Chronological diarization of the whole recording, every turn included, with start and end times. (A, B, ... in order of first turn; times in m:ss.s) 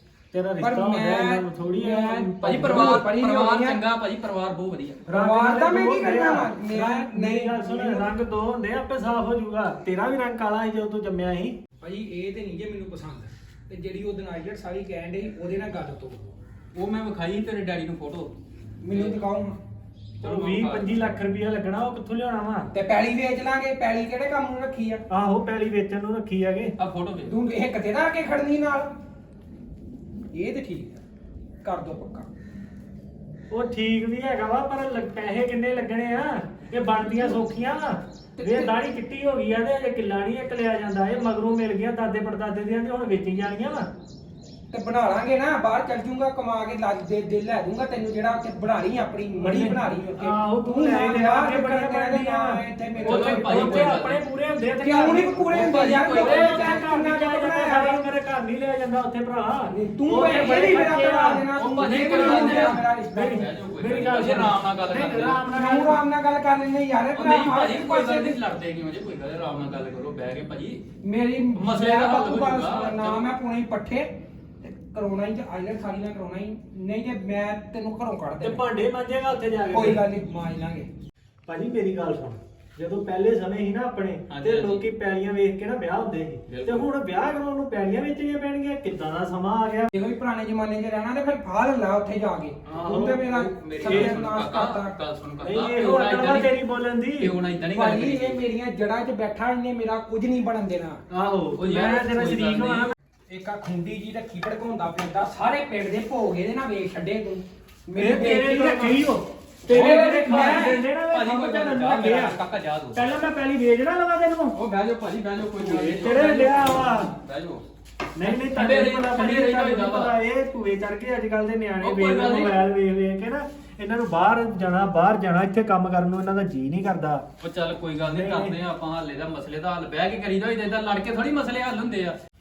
0:00.3-0:03.1 A
0:00.6-0:03.8 B
0:02.4-0:05.1 C
0:05.1-0:11.6 A
0:05.1-0:08.1 B
0:11.8-0:16.3 B
0:16.7-0:18.3 C
0:18.8-0:19.6 B
0:18.9-0:19.2 C
0:20.2-0:21.1 C
0:20.2-0:22.7 A
0:22.7-0:25.0 B
0:25.1-0:26.7 A
0:26.8-0:27.4 C
0:27.3-0:28.9 B
0:30.3-0:31.0 B
0:31.6-0:32.3 B
0:33.5-0:43.9 A
0:38.4-0:38.7 B
0:44.7-0:54.0 B
0:49.4-1:06.0 A
0:53.1-0:54.2 C
0:54.8-0:58.0 B
0:55.5-0:56.8 C
0:59.7-1:03.5 B
1:01.6-1:05.4 C
1:05.5-1:08.4 B
1:07.1-1:10.8 C
1:11.0-1:14.1 B
1:11.6-1:13.3 C
1:14.6-1:18.6 B
1:18.4-1:20.0 A
1:19.7-1:20.9 B
1:21.5-1:29.9 A
1:24.3-1:24.9 C
1:26.5-1:26.9 C
1:29.9-1:34.9 B
1:32.7-1:33.2 A
1:32.7-1:36.5 C
1:33.8-1:34.2 A
1:35.4-1:37.3 A
1:37.2-1:38.4 C
1:37.7-1:41.0 B
1:41.1-1:42.9 A
1:41.5-1:42.9 C
1:43.3-1:49.0 B
1:47.9-1:52.4 A
1:49.7-1:53.1 C
1:49.7-1:50.8 B
1:52.9-1:54.6 A
1:54.5-1:57.6 C
1:55.6-1:57.1 A
1:58.2-2:07.2 A
1:58.2-2:00.2 C
2:01.8-2:02.6 C
2:07.4-2:12.2 C
2:08.1-2:08.6 A